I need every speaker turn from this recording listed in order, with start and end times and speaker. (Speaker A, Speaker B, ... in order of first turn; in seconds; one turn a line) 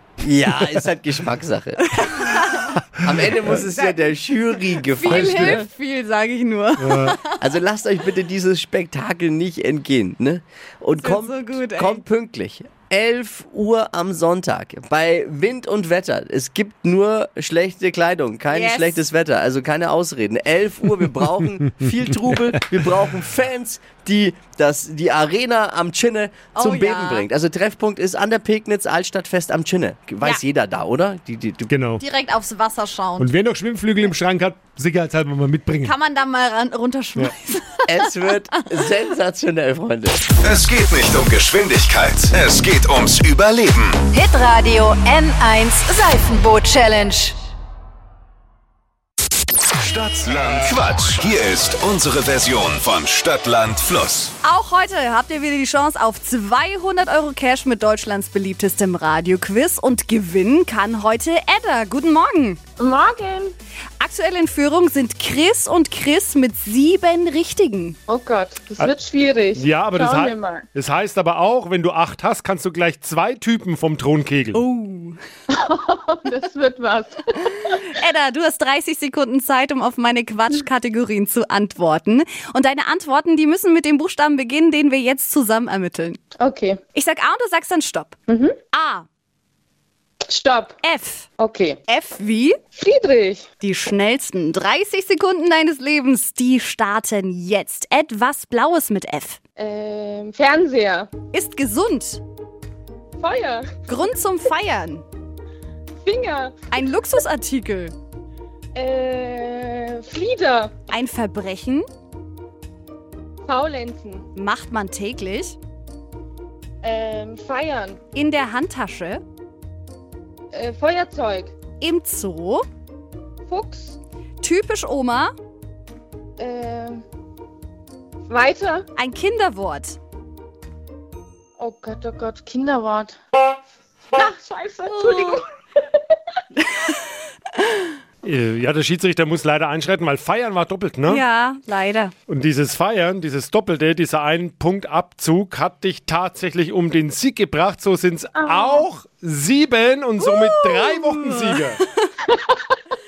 Speaker A: 0.2-2.4
Speaker B: 1.9-2.8
Speaker A: 3.0-5.6
Speaker B: 3.5-4.2
Speaker B: 4.7-7.4
Speaker C: 5.1-5.6
Speaker C: 6.8-7.2
Speaker A: 7.4-31.7
Speaker B: 11.0-12.0
Speaker B: 18.5-19.0
Speaker B: 26.5-27.3
Speaker C: 31.7-32.0
Speaker B: 32.0-33.3
Speaker C: 33.2-35.9
Speaker B: 35.8-38.6
Speaker A: 37.8-40.3
Speaker D: 40.4-44.0
Speaker E: 44.1-47.4
Speaker D: 49.8-54.3
Speaker B: 54.4-62.6
Speaker F: 62.8-63.5
Speaker B: 64.0-68.0
Speaker F: 68.1-70.7
Speaker C: 69.5-74.6
Speaker B: 74.5-75.2
Speaker F: 75.5-77.8
Speaker B: 77.6-86.2
Speaker F: 86.4-86.8
Speaker B: 86.9-88.2
Speaker F: 88.3-88.5
Speaker B: 88.7-89.0
Speaker F: 90.3-90.8
Speaker B: 90.8-91.3
Speaker F: 91.4-91.8
Speaker B: 91.9-92.6
Speaker F: 92.7-93.5
Speaker B: 93.6-99.4
Speaker F: 99.6-101.1
Speaker B: 101.3-102.2
Speaker F: 103.2-103.7
Speaker B: 103.9-105.0
Speaker F: 106.0-106.6
Speaker B: 106.7-107.9
Speaker F: 108.7-110.7
Speaker B: 110.9-111.8
Speaker F: 113.5-114.2
Speaker B: 114.3-115.6
Speaker F: 116.8-118.0
Speaker B: 118.1-119.2
Speaker F: 120.5-121.5
Speaker B: 121.8-122.6
Speaker F: 123.5-124.0
Speaker B: 124.4-125.3
Speaker F: 126.4-127.0
Speaker F: 128.3-128.9
Speaker B: 128.9-130.0
Speaker F: 131.6-133.2
Speaker F: 134.1-135.4
Speaker B: 134.9-135.4
Speaker C: 138.2-141.2
Speaker B: 141.1-142.1
Speaker C: 142.3-151.8
Speaker F: 148.3-148.8
Speaker B: 150.2-152.1
Speaker F: 152.3-152.8